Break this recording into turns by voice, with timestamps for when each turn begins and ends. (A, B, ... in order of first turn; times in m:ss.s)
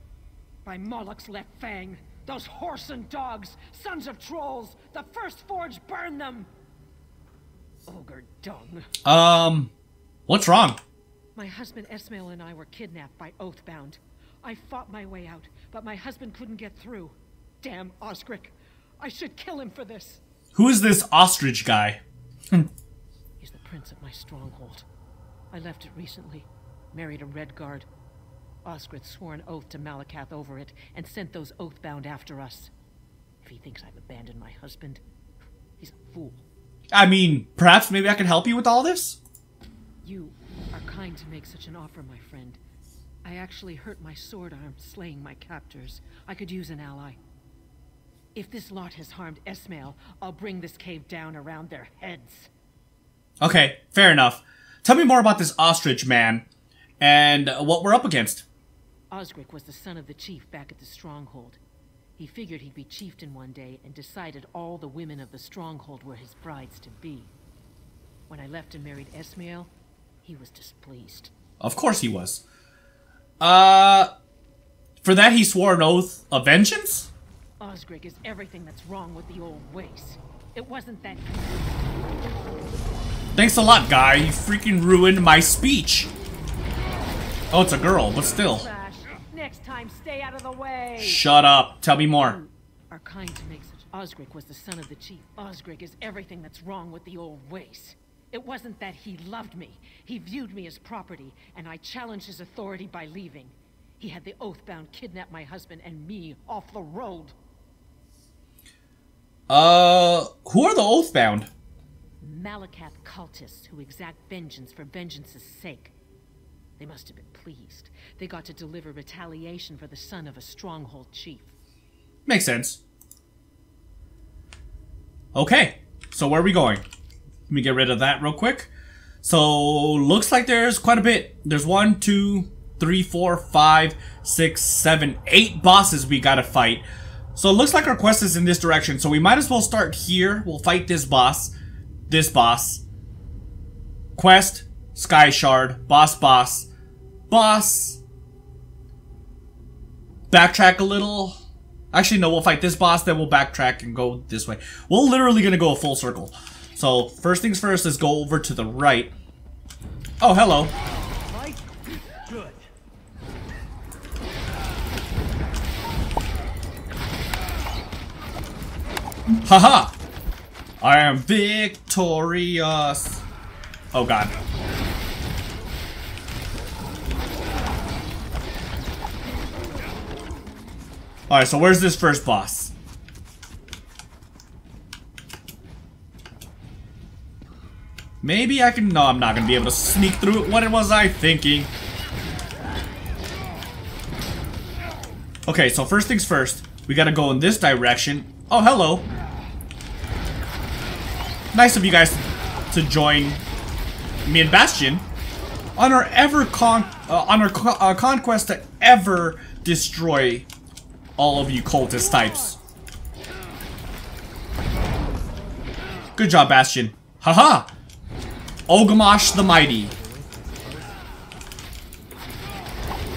0:00.6-0:06.5 A
0:07.9-0:08.9 A
0:09.0-0:09.7 B
0:10.3-0:10.8 B
0:11.3-0:20.2 A
0:20.5-0:22.0 B
0:23.4-0:24.8 A
0:25.5-0:27.9 A
0:28.6-0:32.7 A
0:33.4-0:35.0 A
0:35.8-0:36.4 A
0:36.9-0:39.2 B
0:40.0-0:42.6 A
0:43.2-0:47.2 A
0:48.3-0:52.5 A
0:53.4-0:56.4 B
0:57.0-0:58.4 B
0:59.1-1:01.6 A
1:02.2-1:07.3 A
1:08.3-1:09.7 A
1:10.2-1:11.3 A
1:11.6-1:12.4 B
1:13.4-1:14.1 B
1:15.0-1:17.1 B
1:17.6-1:21.9 A
1:23.3-1:26.1 B
1:27.5-1:28.7 B
1:28.4-1:31.3 A
1:31.0-1:32.4 B
1:32.1-1:47.3 A
1:49.5-1:51.5 B
1:52.2-1:55.9 A
1:56.8-2:01.5 A
2:02.2-2:02.8 B
2:05.3-2:06.8 B
2:07.5-2:08.7 B
2:09.2-2:21.5 B
2:22.1-2:22.8 B
2:24.2-2:26.7 B
2:27.3-2:28.0 B
2:30.3-2:31.4 B
2:31.9-2:39.1 B
2:40.2-2:40.7 B
2:41.2-2:42.6 A
2:49.4-2:49.9 B
2:50.8-2:53.2 B
2:53.9-2:54.3 B
3:01.3-3:02.7 B
3:08.2-3:11.7 B
3:15.4-3:19.1 B
3:21.5-3:23.4 B
3:24.2-3:25.1 B
3:25.8-3:30.5 B
3:31.2-3:32.6 B
3:36.2-3:37.7 B
3:38.7-3:39.9 B